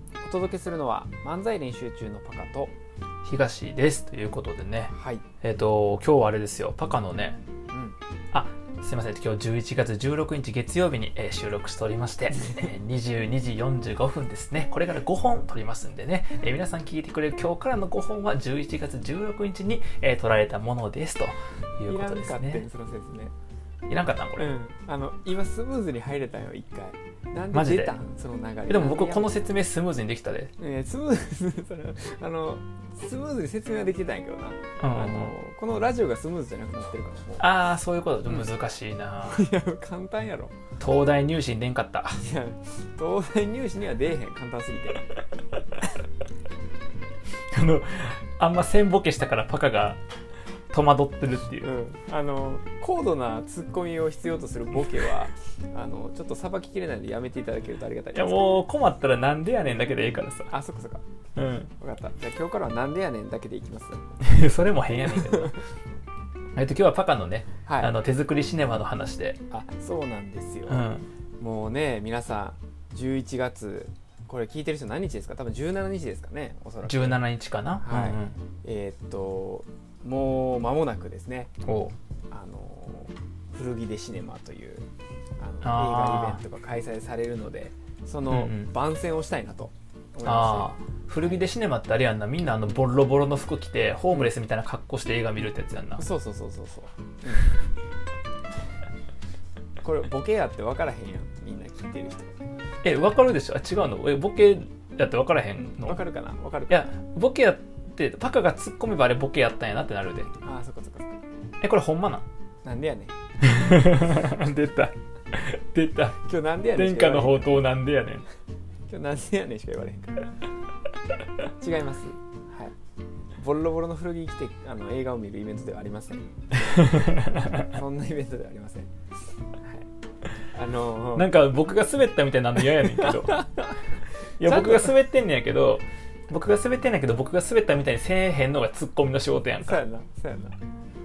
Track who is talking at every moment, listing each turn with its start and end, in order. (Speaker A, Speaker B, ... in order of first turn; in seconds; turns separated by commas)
Speaker A: 0.2-2.8, Speaker B: 3.2-7.4, Speaker A: 4.9-5.2, Speaker A: 7.7-8.0, Speaker B: 8.3-22.7, Speaker A: 21.9-23.3, Speaker B: 23.9-24.6, Speaker A: 24.4-29.5, Speaker B: 27.5-28.0, Speaker B: 28.7-30.5, Speaker A: 30.6-37.5, Speaker B: 34.8-35.4, Speaker B: 37.4-39.5, Speaker A: 38.3-38.5, Speaker A: 39.2-40.5, Speaker B: 40.8-42.2, Speaker A: 42.2-45.1, Speaker B: 47.5-50.0, Speaker B: 50.7-51.7, Speaker A: 51.6-58.6, Speaker B: 58.1-60.5, Speaker A: 60.5-61.0, Speaker B: 61.4-61.7, Speaker A: 61.8-64.0, Speaker B: 64.2-65.5, Speaker A: 64.9-65.6, Speaker B: 66.5-69.4, Speaker A: 67.7-68.0, Speaker A: 69.5-70.9, Speaker B: 70.7-71.1, Speaker A: 71.4-77.2, Speaker B: 76.8-78.4, Speaker A: 77.8-81.5, Speaker B: 81.7-82.0, Speaker A: 82.3-84.9, Speaker A: 85.4-91.4, Speaker B: 85.6-86.4, Speaker B: 88.3-88.7, Speaker B: 90.2-96.0, Speaker A: 96.0-97.5, Speaker A: 99.8-102.4, Speaker B: 102.8-106.1, Speaker A: 105.9-106.9, Speaker B: 106.7-110.3, Speaker A: 110.4-111.2, Speaker B: 111.6-112.3, Speaker A: 112.6-113.1, Speaker B: 113.4-116.2, Speaker A: 116.2-117.7, Speaker B: 116.7-118.2, Speaker A: 118.9-120.3, Speaker A: 121.5-122.7, Speaker A: 123.4-128.9, Speaker B: 126.7-127.7, Speaker A: 130.5-131.3, Speaker B: 131.2-133.5, Speaker A: 133.0-133.8, Speaker B: 134.4-139.8, Speaker A: 134.4-134.9, Speaker A: 139.6-140.6